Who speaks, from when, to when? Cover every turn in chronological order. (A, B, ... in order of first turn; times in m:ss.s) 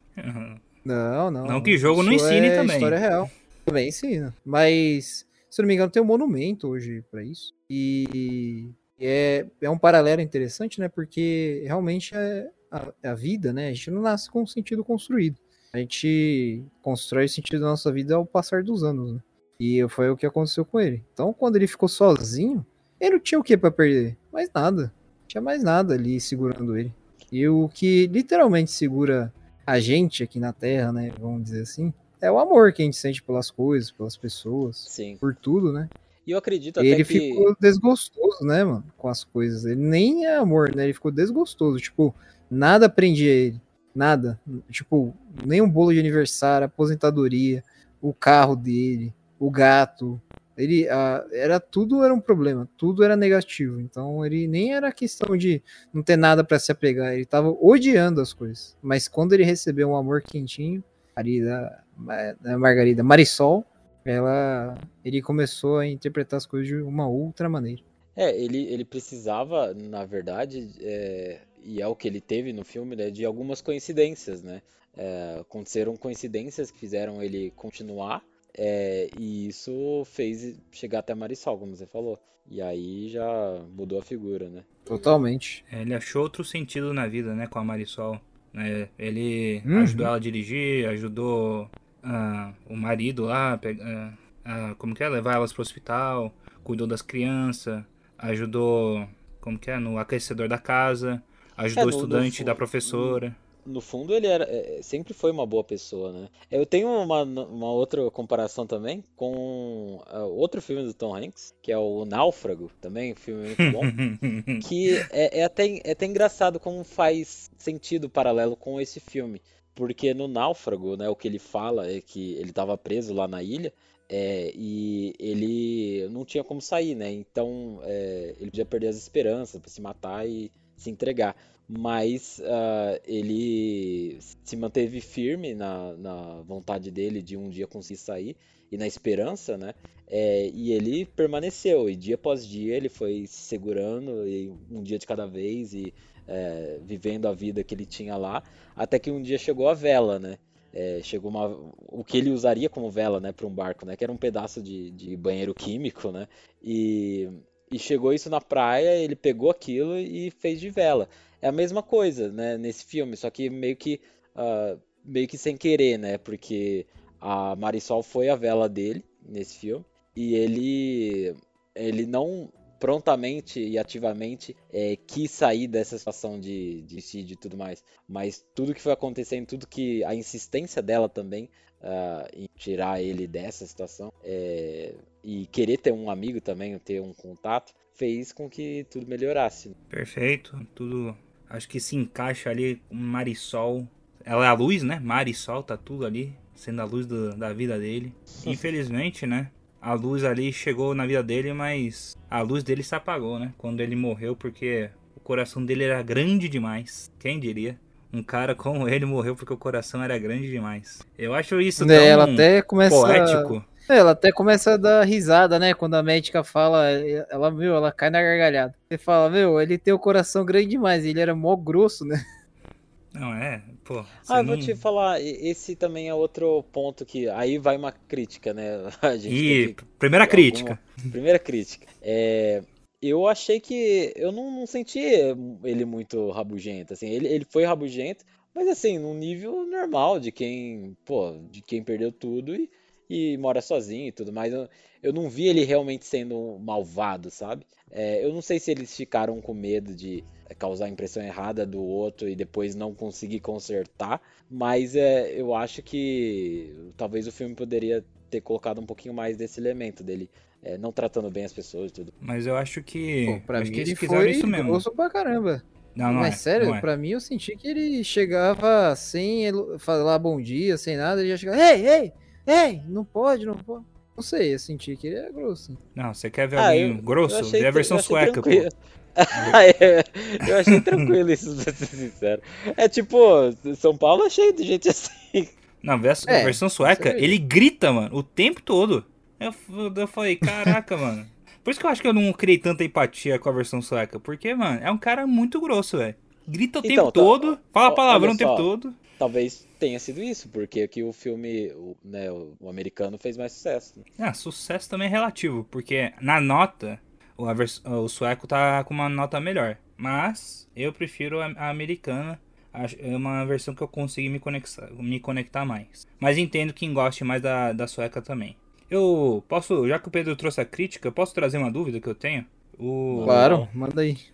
0:00.2-0:00.6 A
0:00.8-0:35.9 B
0:01.4-0:03.0 A
0:34.9-0:35.2 C
0:36.3-0:37.5 C
0:36.8-1:07.8 B
1:08.2-1:24.7 C
1:24.9-1:25.6 B
1:25.7-1:43.4 A
1:29.6-1:30.1 B
1:41.8-1:54.0 C
1:53.9-1:55.0 A
1:54.6-3:09.8 C
3:09.9-3:33.6 A
3:31.8-3:42.2 B
3:43.1-3:44.8 A
3:44.3-4:22.1 C
3:49.3-3:50.8 A
4:22.2-4:24.8 A
4:23.3-4:35.8 B
4:26.0-4:26.9 A
4:36.0-4:38.7 A
4:36.6-4:45.5 C
4:45.8-4:59.0 A
4:46.3-4:47.4 B
4:50.5-4:50.7 B
4:56.8-5:04.0 C
5:04.2-5:23.6 A
5:23.1-5:23.7 C
5:23.2-5:24.2 B